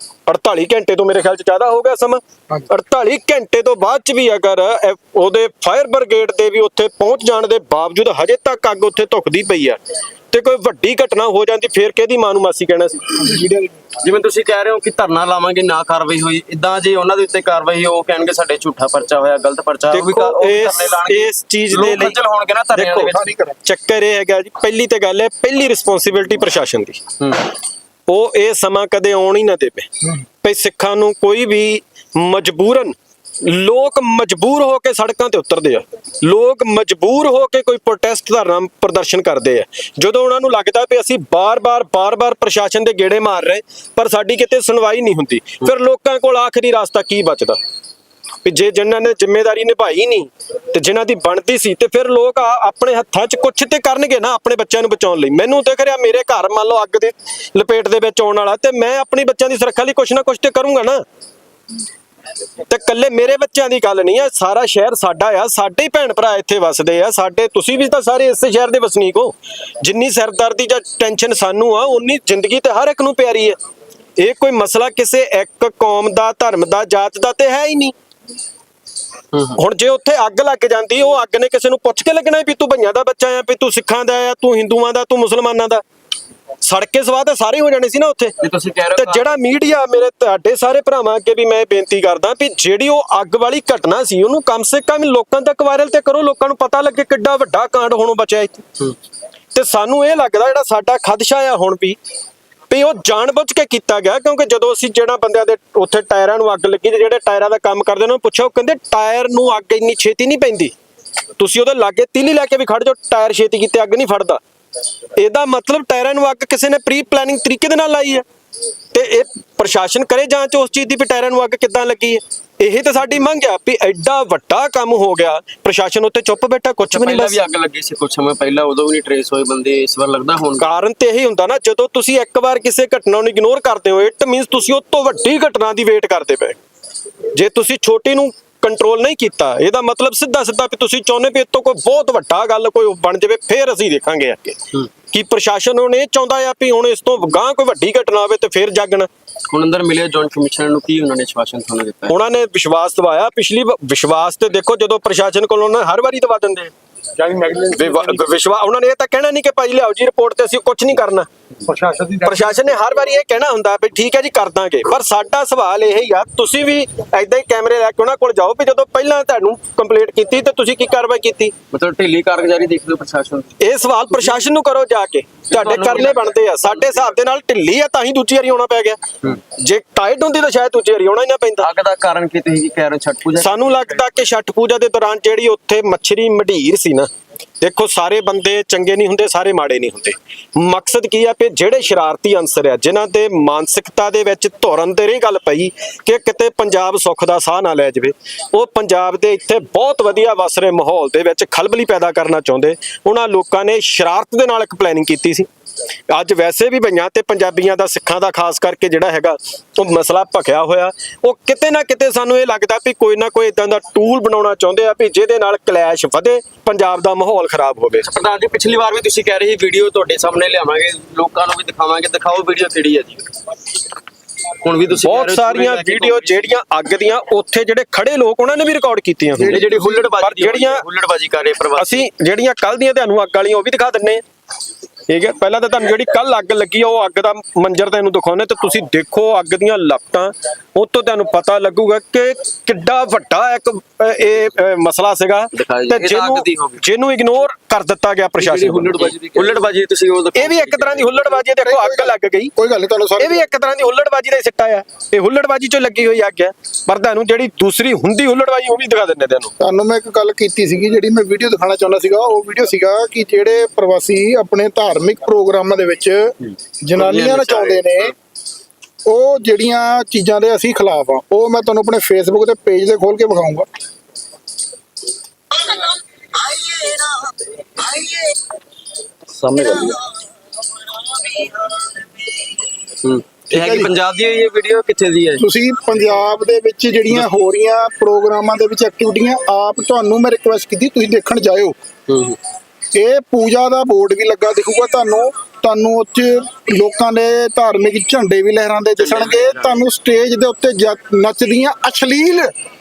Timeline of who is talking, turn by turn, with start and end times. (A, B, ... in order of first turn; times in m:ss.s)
0:00.3-0:09.8 A
0:10.3-0:13.3 A
0:13.2-0:13.8 B
0:14.0-0:23.3 C
0:19.9-0:22.2 A
0:22.7-0:23.1 A
0:23.1-0:23.6 B
0:23.6-0:27.0 A
0:27.2-0:27.5 C
0:28.1-0:29.9 A
0:30.4-0:47.6 A
0:48.4-1:01.0 A
1:02.7-1:13.6 A
1:14.2-1:17.9 A
1:19.6-1:25.8 A
1:26.6-1:28.3 A
1:28.4-1:29.4 C
1:29.0-1:38.6 A
1:39.5-1:42.0 A
1:42.7-1:50.7 A
1:51.4-1:54.4 A
1:55.2-1:58.2 A
1:58.9-2:07.4 A
2:06.9-2:10.7 C
2:10.6-2:16.6 A
2:17.3-2:29.1 A
2:29.5-2:32.1 C
2:32.1-2:36.7 A
2:37.2-2:38.2 D
2:37.7-2:41.3 A
2:41.6-2:42.7 D
2:42.2-2:51.5 A
2:51.7-2:53.5 C
2:53.6-2:59.0 A
2:55.5-2:57.0 C
2:59.6-3:01.7 A
3:01.6-3:04.0 C
3:03.4-3:07.1 A
3:07.6-3:25.5 A
3:26.1-3:38.0 A
3:38.0-3:43.3 C
3:44.6-3:46.6 C
3:45.0-3:50.8 A
3:49.3-3:52.0 C
3:51.8-3:54.2 A
3:55.1-4:09.1 A
4:05.5-4:06.8 C
4:08.4-4:11.4 C
4:10.3-4:12.5 A
4:11.6-4:13.4 B
4:13.2-4:19.5 A
4:19.6-4:26.3 B
4:26.8-4:28.1 B
4:27.0-4:28.0 C
4:29.0-4:33.7 B
4:39.4-4:40.0 C
4:43.0-4:45.4 C
4:43.5-4:43.9 B
4:45.4-4:51.7 B
4:52.1-4:52.4 C
4:52.9-5:02.5 B
4:59.0-4:59.8 C